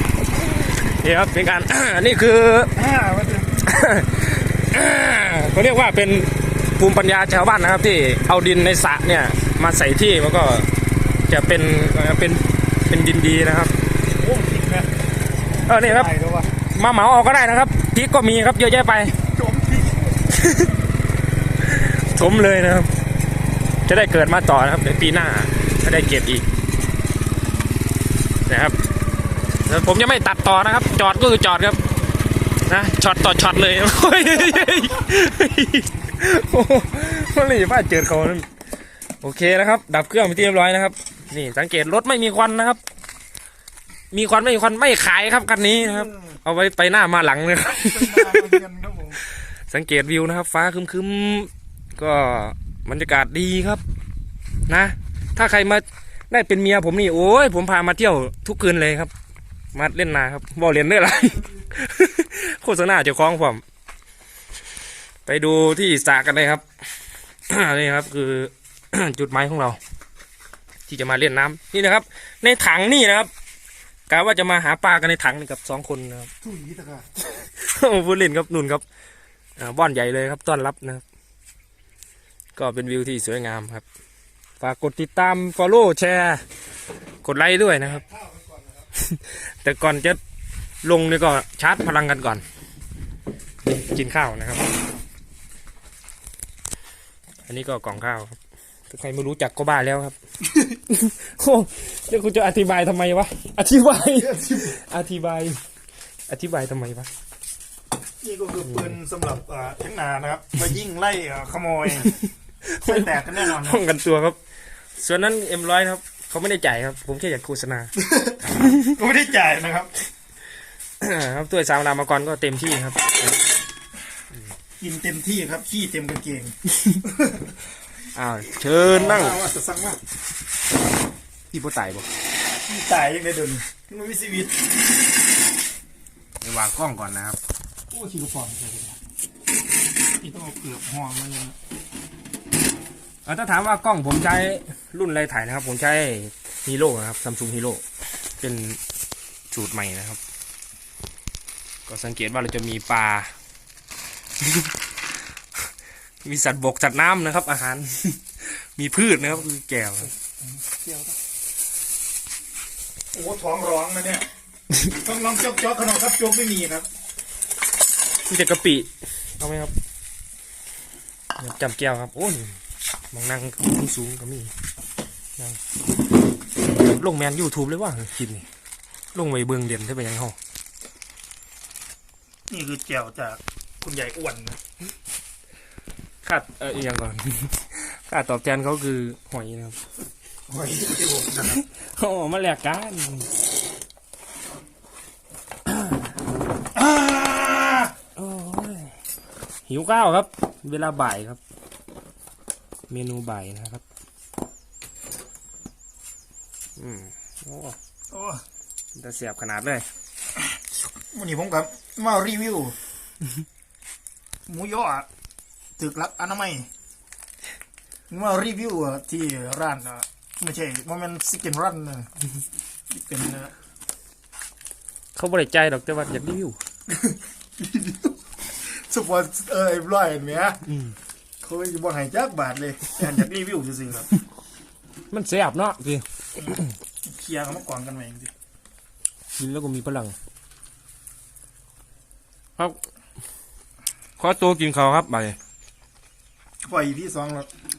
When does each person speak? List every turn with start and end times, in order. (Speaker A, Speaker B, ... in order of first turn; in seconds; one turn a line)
Speaker A: 0.4-2.7
Speaker B: 2.8-3.7
Speaker A: 3.6-10.7
Speaker A: 11.3-13.7
Speaker B: 14.2-14.9
Speaker A: 15.7-16.1
Speaker B: 15.7-16.5
Speaker A: 16.7-19.2
Speaker B: 19.3-20.2
Speaker A: 20.4-20.7
Speaker A: 21.6-22.9
Speaker A: 23.9-26.4
Speaker A: 28.5-28.8
Speaker A: 29.7-31.8
Speaker A: 32.7-38.5
Speaker A: 39.2-42.8
Speaker A: 44.1-48.6
Speaker B: 45.8-46.4
Speaker B: 47.6-49.2
Speaker A: 49.7-53.8
Speaker A: 54.7-59.1
Speaker A: 59.7-63.6
Speaker A: 65.3-66.6
Speaker A: 67.5-69.8
Speaker A: 70.9-73.3
Speaker A: 74.1-76.3
Speaker B: 76.4-77.1
Speaker A: 77.3-78.8
Speaker A: 79.6-81.0
Speaker A: 82.6-83.8
Speaker A: 84.6-86.4
Speaker A: 87.2-88.0
Speaker B: 88.0-88.9
Speaker A: 89.0-90.2
Speaker A: 90.8-92.4
Speaker A: 93.7-94.7
Speaker A: 97.5-98.4
Speaker A: 98.9-100.2
Speaker A: 100.7-105.6
Speaker B: 104.2-104.7
Speaker A: 106.3-107.1
Speaker B: 108.2-112.2
Speaker A: 108.7-109.0
Speaker A: 112.6-114.4
Speaker B: 112.8-113.8
Speaker A: 115.0-117.9
Speaker B: 118.0-119.9
Speaker A: 121.0-123.3
Speaker B: 124.8-127.4
Speaker A: 128.1-129.4
Speaker B: 128.9-130.0
Speaker A: 131.5-132.1
Speaker B: 132.7-134.6
Speaker A: 136.4-137.4
Speaker B: 137.9-139.0
Speaker B: 140.2-141.6
Speaker A: 143.2-147.8
Speaker A: 148.4-148.8
Speaker A: 149.5-150.2
Speaker A: 151.9-153.3
Speaker A: 154.4-154.7
Speaker A: 156.2-160.1
Speaker B: 160.4-161.2
Speaker B: 163.1-164.3
Speaker B: 164.9-166.9
Speaker A: 168.3-169.7
Speaker A: 171.4-172.6
Speaker A: 173.1-174.5
Speaker A: 176.7-178.5
Speaker A: 179.1-180.4
Speaker B: 182.5-184.6
Speaker A: 186.2-189.8
Speaker B: 190.5-191.6
Speaker A: 191.5-193.3
Speaker B: 196.8-197.9
Speaker A: 198.2-198.9
Speaker A: 199.7-201.4
Speaker A: 202.9-203.8
Speaker A: 206.8-207.8
Speaker B: 208.1-208.4
Speaker A: 209.0-209.8
Speaker B: 211.1-212.8
Speaker B: 214.5-215.1
Speaker B: 215.8-216.7
Speaker B: 218.1-222.1
Speaker B: 222.9-223.5
Speaker A: 225.2-226.6
Speaker B: 226.9-228.1
Speaker B: 228.6-230.6
Speaker B: 231.4-234.1
Speaker A: 235.1-236.7
Speaker B: 236.4-238.3
Speaker A: 239.4-240.2
Speaker A: 244.2-245.4
Speaker B: 246.7-247.5